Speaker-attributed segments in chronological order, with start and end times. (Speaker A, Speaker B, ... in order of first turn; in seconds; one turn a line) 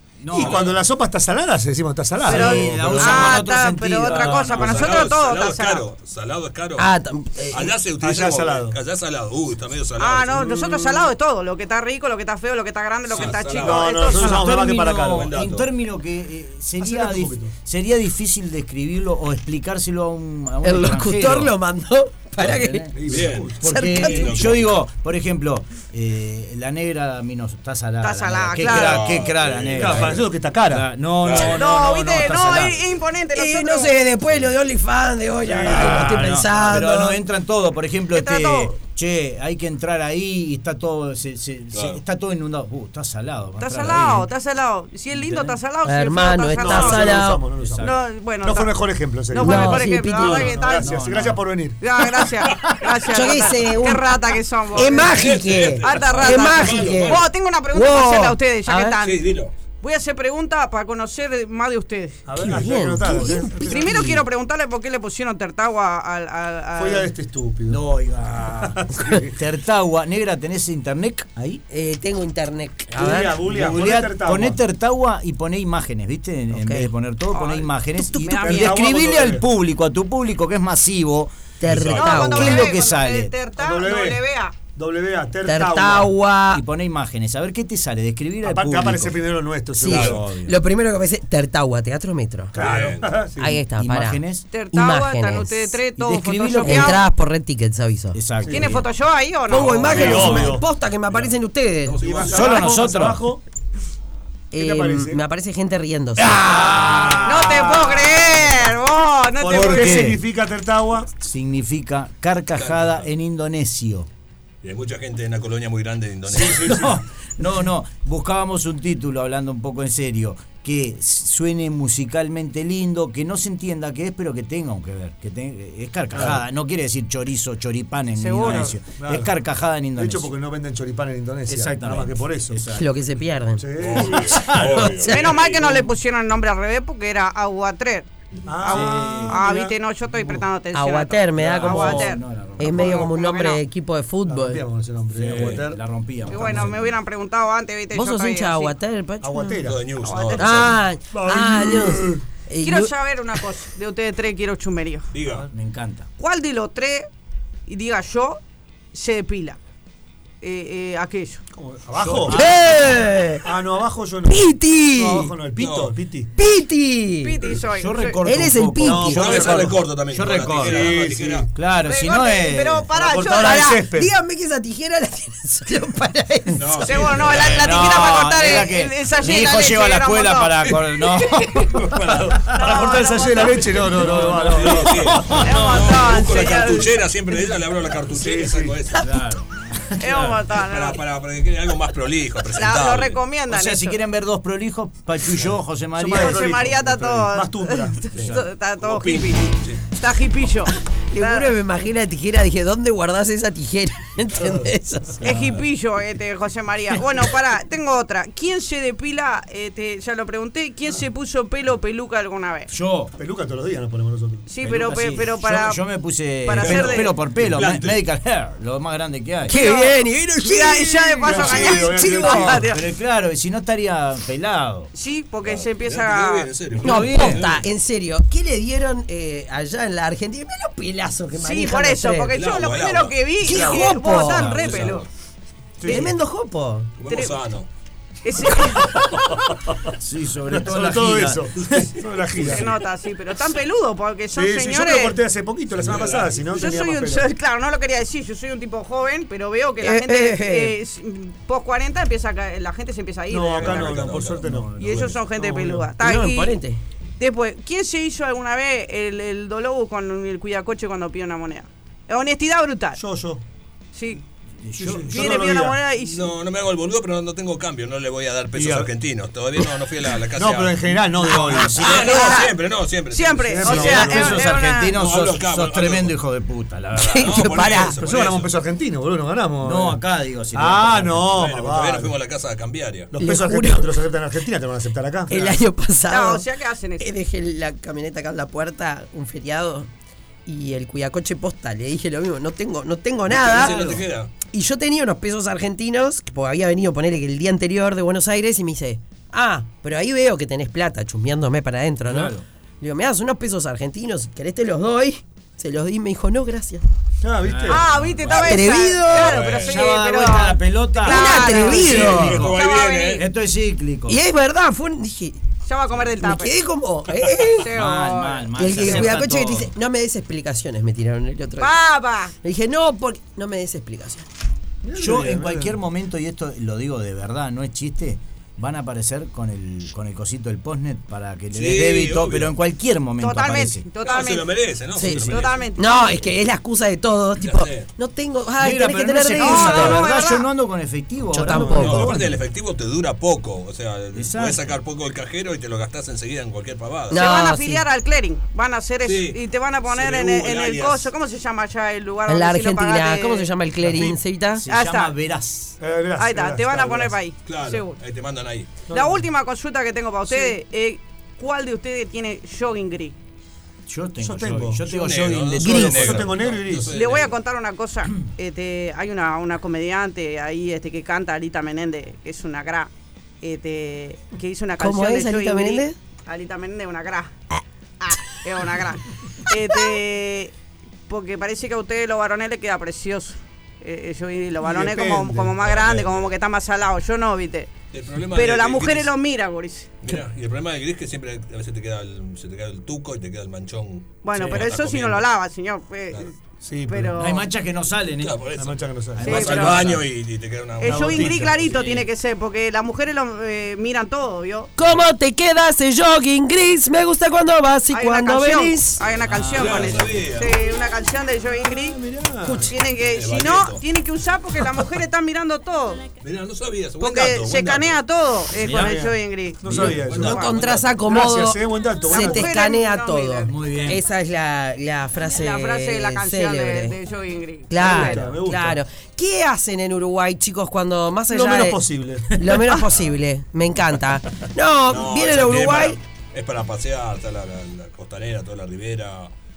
Speaker A: 0.2-0.7
Speaker B: 0.3-0.8
Speaker C: 0.3-3.4
Speaker A: 2.2-5.1
Speaker D: 2.2-5.8
Speaker B: 4.1-6.9
Speaker E: 6.8-7.7
Speaker B: 7.5-10.5
Speaker C: 8.0-8.8
Speaker D: 10.0-14.4
Speaker C: 10.3-11.1
Speaker B: 13.1-14.3
Speaker C: 13.6-15.4
Speaker A: 14.1-21.5
Speaker B: 15.0-15.7
Speaker C: 16.8-17.5
Speaker E: 20.6-22.9
Speaker A: 22.4-32.8
Speaker B: 22.9-24.8
Speaker C: 23.0-23.6
Speaker E: 23.6-24.5
Speaker D: 28.0-29.2
Speaker B: 28.6-30.2
Speaker C: 29.7-31.4
Speaker B: 31.2-31.6
Speaker D: 31.4-34.0
Speaker E: 33.3-37.2
Speaker C: 35.4-36.4
Speaker A: 35.6-44.3
Speaker D: 38.1-38.7
Speaker B: 41.7-42.0
Speaker D: 43.6-47.3
Speaker A: 45.1-45.5
Speaker E: 45.8-47.4
Speaker C: 46.5-51.8
Speaker A: 47.6-47.9
Speaker D: 47.8-48.7
Speaker D: 49.3-50.9
Speaker E: 49.4-50.5
Speaker A: 50.2-51.4
Speaker D: 51.8-55.2
Speaker E: 53.1-54.0
Speaker E: 54.7-59.0
Speaker B: 55.0-57.2
Speaker D: 55.8-59.3
Speaker B: 59.0-59.5
Speaker D: 59.8-62.2
Speaker C: 62.3-64.1
Speaker E: 62.4-64.2
Speaker D: 63.7-67.1
Speaker C: 66.8-67.8
Speaker A: 67.7-71.6
Speaker C: 68.6-69.4
Speaker E: 71.7-73.4
Speaker C: 72.9-74.6
Speaker A: 73.4-83.3
Speaker E: 76.5-76.9
Speaker D: 77.3-78.7
Speaker C: 78.4-79.5
Speaker E: 81.6-82.7
Speaker B: 81.7-82.3
Speaker D: 82.0-84.5
Speaker C: 83.6-84.2
Speaker C: 84.7-86.1
Speaker E: 85.5-86.6
Speaker A: 86.5-89.2
Speaker C: 88.4-90.2
Speaker E: 89.8-92.5
Speaker A: 89.8-90.5
Speaker B: 92.5-93.2
Speaker C: 92.5-93.6
Speaker E: 93.4-95.8
Speaker A: 93.7-94.5
Speaker D: 94.5-97.0
Speaker A: 96.0-97.0
Speaker E: 96.5-98.2
Speaker A: 98.1-98.8
Speaker C: 98.4-98.7
Speaker D: 98.5-100.5
Speaker E: 99.5-102.0
Speaker B: 99.6-100.6
Speaker C: 99.7-100.6
Speaker B: 101.8-102.8
Speaker C: 102.0-103.4
Speaker A: 102.2-103.2
Speaker E: 104.5-107.2
Speaker C: 104.5-105.2
Speaker A: 106.2-107.6
Speaker C: 106.7-108.4
Speaker D: 107.2-110.1
Speaker C: 109.4-111.1
Speaker A: 109.5-110.2
Speaker A: 111.2-114.1
Speaker B: 112.5-113.0
Speaker B: 114.6-116.8
Speaker C: 116.3-117.0
Speaker A: 116.5-130.3
Speaker D: 128.1-128.8
Speaker C: 128.4-129.3
Speaker C: 129.9-132.6
Speaker A: 131.5-132.9
Speaker E: 132.7-133.7
Speaker C: 133.6-134.6
Speaker B: 133.8-135.7
Speaker A: 134.3-135.1
Speaker D: 135.1-138.1
Speaker C: 138.4-139.8
Speaker A: 138.6-139.4
Speaker D: 139.3-143.6
Speaker E: 140.7-144.6
Speaker A: 141.4-143.0
Speaker C: 141.6-142.1
Speaker C: 144.2-146.7
Speaker A: 145.1-146.9
Speaker B: 145.3-145.6
Speaker D: 146.3-148.7
Speaker E: 147.9-149.6
Speaker C: 149.2-150.1
Speaker B: 149.6-150.8
Speaker D: 150.0-150.5
Speaker E: 150.4-152.9
Speaker C: 151.1-152.2
Speaker D: 152.6-155.1
Speaker B: 155.1-155.5
Speaker A: 155.3-156.1
Speaker D: 156.2-157.1
Speaker D: 157.7-158.4
Speaker D: 158.9-159.6
Speaker D: 160.4-161.4
Speaker C: 161.5-162.4
Speaker B: 162.0-162.3
Speaker A: 162.3-163.0
Speaker E: 162.3-163.4
Speaker C: 163.4-166.3
Speaker E: 164.3-165.3
Speaker B: 165.6-165.9
Speaker E: 166.4-167.3
Speaker D: 167.2-168.2
Speaker A: 167.8-171.0
Speaker E: 168.2-169.2
Speaker C: 168.8-169.8
Speaker B: 169.1-171.5
Speaker C: 170.6-171.5
Speaker A: 171.5-172.9
Speaker D: 171.8-173.7
Speaker C: 172.9-174.1
Speaker E: 173.3-176.8
Speaker B: 176.6-177.7
Speaker A: 176.8-181.8
Speaker D: 176.9-180.9
Speaker C: 177.6-178.4
Speaker B: 181.8-182.7
Speaker C: 182.4-185.2
Speaker D: 182.5-183.9
Speaker A: 183.9-185.8
Speaker B: 184.2-189.2
Speaker D: 185.4-186.9
Speaker C: 188.1-188.8
Speaker A: 189.0-190.4
Speaker D: 190.0-191.0
Speaker B: 190.6-193.2
Speaker D: 192.6-194.0
Speaker A: 193.5-196.7
Speaker C: 195.9-198.1
Speaker D: 196.1-201.5
Speaker B: 198.1-199.9
Speaker E: 201.1-205.2
Speaker D: 205.2-212.7
Speaker A: 212.7-213.1
Speaker C: 213.2-214.5
Speaker D: 214.5-215.8
Speaker A: 214.6-219.6
Speaker D: 216.4-217.1
Speaker B: 216.6-218.0
Speaker E: 219.5-222.6
Speaker D: 219.5-222.8
Speaker C: 221.2-222.7
Speaker A: 222.5-224.9
Speaker D: 224.9-226.5
Speaker B: 225.4-227.6
Speaker A: 226.8-227.4
Speaker E: 226.8-232.3
Speaker D: 231.3-235.1
Speaker B: 232.3-235.1
Speaker E: 233.4-234.5
Speaker C: 233.5-233.9
Speaker C: 235.8-236.1
Speaker E: 235.8-236.9
Speaker B: 237.0-237.7
Speaker D: 237.1-237.3
Speaker D: 238.2-239.3
Speaker A: 240.0-241.4
Speaker C: 240.5-242.8
Speaker D: 242.4-245.2
Speaker C: 244.3-247.2
Speaker B: 245.7-246.7
Speaker D: 246.6-254.1
Speaker E: 249.8-250.8
Speaker C: 253.3-255.9
Speaker B: 253.5-255.1
Speaker A: 254.4-255.0
Speaker D: 254.8-256.6
Speaker E: 256.0-256.8
Speaker D: 257.2-263.0
Speaker C: 262.9-263.4
Speaker D: 263.9-264.2
Speaker A: 264.6-265.4
Speaker C: 264.8-265.8
Speaker D: 265.0-266.3
Speaker B: 266.0-270.9
Speaker C: 268.5-268.9
Speaker C: 270.3-271.8
Speaker A: 271.1-272.4
Speaker B: 271.8-273.7
Speaker D: 271.8-272.6
Speaker D: 273.1-274.9
Speaker C: 273.5-274.5
Speaker A: 273.6-277.7
Speaker B: 274.9-276.2
Speaker E: 276.9-278.0
Speaker B: 277.2-278.5
Speaker C: 278.0-280.0
Speaker A: 279.6-281.4
Speaker C: 280.5-282.1
Speaker B: 281.3-283.1
Speaker C: 283.1-285.5
Speaker E: 283.2-284.0
Speaker E: 285.3-286.4
Speaker D: 286.1-287.1
Speaker E: 287.0-289.9
Speaker E: 290.4-293.8
Speaker B: 293.3-294.3
Speaker A: 293.4-294.0
Speaker E: 294.5-306.8
Speaker A: 302.1-302.4
Speaker C: 307.2-308.1
Speaker A: 307.4-308.5
Speaker D: 307.7-313.2
Speaker B: 308.3-309.8
Speaker E: 308.4-309.4
Speaker A: 309.6-314.2
Speaker E: 311.0-312.4
Speaker B: 311.7-313.2
Speaker E: 314.1-315.4
Speaker D: 315.6-316.5
Speaker E: 316.2-317.7
Speaker D: 317.6-319.2
Speaker A: 317.7-319.7
Speaker E: 318.6-321.7
Speaker D: 321.6-322.3
Speaker E: 322.4-324.2
Speaker C: 324.8-325.8
Speaker A: 325.0-333.9
Speaker B: 331.5-332.6
Speaker D: 333.2-334.6
Speaker B: 334.0-335.7
Speaker E: 334.9-340.0
Speaker D: 335.2-336.2
Speaker B: 337.4-337.9
Speaker A: 338.6-342.2
Speaker D: 339.4-340.5
Speaker E: 341.3-342.0
Speaker C: 341.4-342.4
Speaker B: 341.7-347.2
Speaker A: 344.1-344.8
Speaker E: 347.1-347.8
Speaker D: 347.1-353.5
Speaker B: 349.0-351.1
Speaker E: 352.3-354.6
Speaker A: 354.6-355.8
Speaker D: 354.7-355.1
Speaker C: 355.8-357.1
Speaker D: 356.2-358.0
Speaker B: 357.4-358.8
Speaker D: 358.9-363.1
Speaker C: 358.9-359.2
Speaker A: 363.9-366.4
Speaker C: 364.2-364.9
Speaker B: 364.8-367.3
Speaker C: 365.6-366.9
Speaker E: 365.6-366.0
Speaker D: 366.9-372.9
Speaker D: 373.4-377.3
Speaker E: 374.8-375.9
Speaker D: 378.0-380.5
Speaker D: 381.1-387.7
Speaker C: 384.6-385.6
Speaker B: 385.6-386.3
Speaker B: 387.9-389.1
Speaker D: 388.3-389.9
Speaker B: 390.0-395.2
Speaker D: 394.2-396.3
Speaker C: 396.6-397.3
Speaker D: 396.9-397.4
Speaker A: 397.1-398.4
Speaker B: 398.1-401.9
Speaker C: 398.6-399.8
Speaker A: 399.1-400.1
Speaker D: 399.2-399.8
Speaker D: 400.8-404.7
Speaker C: 400.8-401.7
Speaker A: 401.7-402.1
Speaker E: 404.8-409.0
Speaker D: 407.9-412.0
Speaker A: 409.2-410.1
Speaker B: 409.5-410.6
Speaker C: 411.6-412.7
Speaker E: 412.4-412.7
Speaker D: 412.6-416.1
Speaker B: 413.0-413.8
Speaker B: 416.2-418.0
Speaker D: 417.0-419.6
Speaker A: 418.6-418.9
Speaker C: 418.6-422.5
Speaker A: 419.7-420.0
Speaker B: 419.7-420.9
Speaker E: 420.1-426.9
Speaker D: 422.1-423.9
Speaker A: 423.5-424.0
Speaker D: 425.3-428.1
Speaker E: 427.7-436.0
Speaker C: 427.8-428.8
Speaker C: 431.3-432.4
Speaker A: 432.3-432.7
Speaker B: 432.8-433.1
Speaker B: 434.9-439.3